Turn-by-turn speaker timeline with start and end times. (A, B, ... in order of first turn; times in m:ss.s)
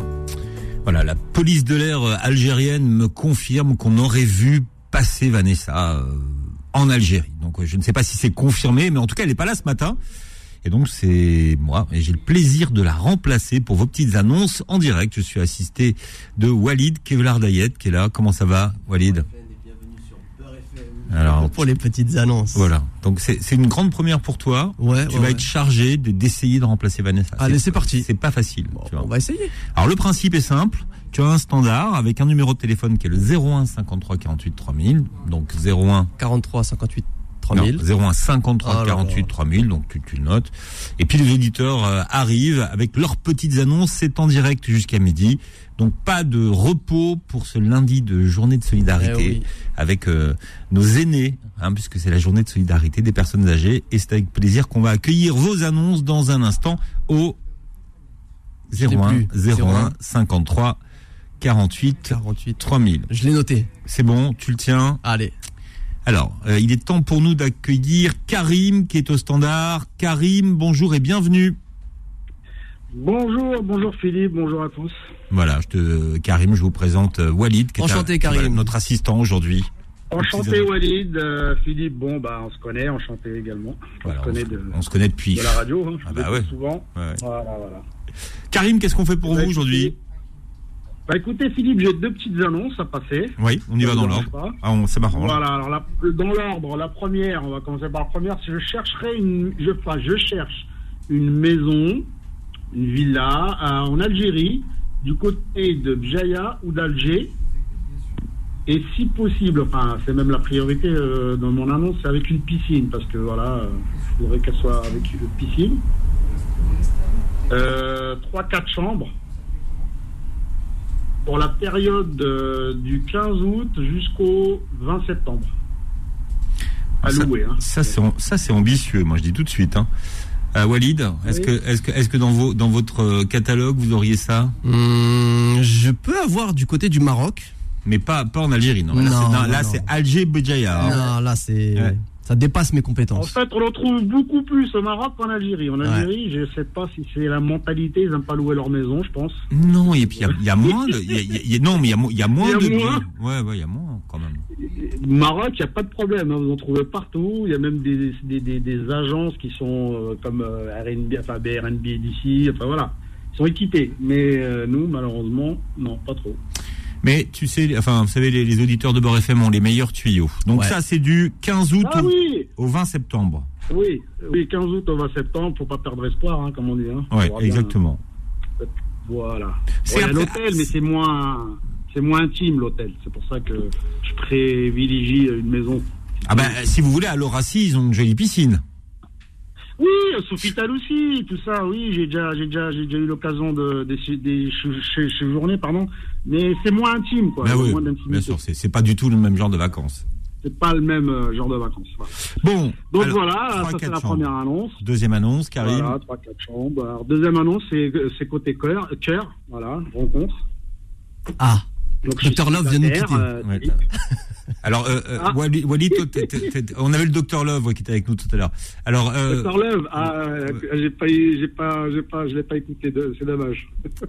0:00.8-0:10.0 A
0:10.6-0:19.3 A
0:19.3-0:22.7 B
0:21.1-0:21.7 A
0:22.5-0:29.1 A
0:24.8-0:25.5 B
0:27.4-0:28.1 B
0:28.7-0:29.5 B
0:29.7-0:36.1 A
0:36.2-0:37.8 B
0:37.5-0:57.4 A
0:38.6-0:39.3 B
0:49.0-0:49.5 B
0:58.7-1:00.8 A
0:58.8-0:59.9 B
1:01.4-1:03.1 A
1:02.1-1:03.7 B
1:03.8-1:05.0 A
1:05.0-1:05.3 B
1:06.0-1:11.6 A
1:12.9-1:14.9 C
1:15.3-1:20.7 A
1:17.8-1:18.7 B
1:20.1-1:24.7 C
1:24.0-1:27.2 A
1:25.3-1:27.8 C
1:28.5-1:30.0 A
1:29.2-1:29.9 C
1:31.1-1:34.6 C
1:33.4-1:35.4 A
1:35.1-1:42.1 C
1:42.7-1:47.3 C
1:48.7-1:55.8 C
1:57.5-1:59.1 C
2:01.2-2:05.5 C
2:07.0-2:09.9 A
2:07.0-2:07.6 C
2:10.5-2:14.5 A
2:11.2-2:11.5 C
2:14.6-2:17.5 B
2:17.8-2:21.0 A
2:18.9-2:19.9 B
2:20.8-2:21.0 C
2:20.8-2:23.3 B
2:23.1-2:29.4 C
2:25.8-2:26.1 B
2:29.5-2:34.4 A
2:30.2-2:31.2 C
2:32.4-2:33.0 C
2:34.6-2:46.4 C
2:47.0-2:53.5 A
2:51.8-2:52.5 C
2:53.7-2:57.7 C
2:57.1-2:58.0 A
2:58.6-3:06.6 C
2:59.8-3:00.7 A
3:06.3-3:08.6 A
3:09.8-3:18.4 C
3:17.4-3:20.0 A
3:20.4-3:22.2 C
3:22.4-3:24.3 A
3:22.9-3:24.8 C
3:24.8-3:26.0 A
3:25.6-3:30.4 C
3:31.4-3:31.6 B
3:32.0-3:33.8 C
3:32.2-3:33.2 B
3:34.6-3:39.5 A
3:35.9-3:36.5 C
3:39.3-3:43.7 C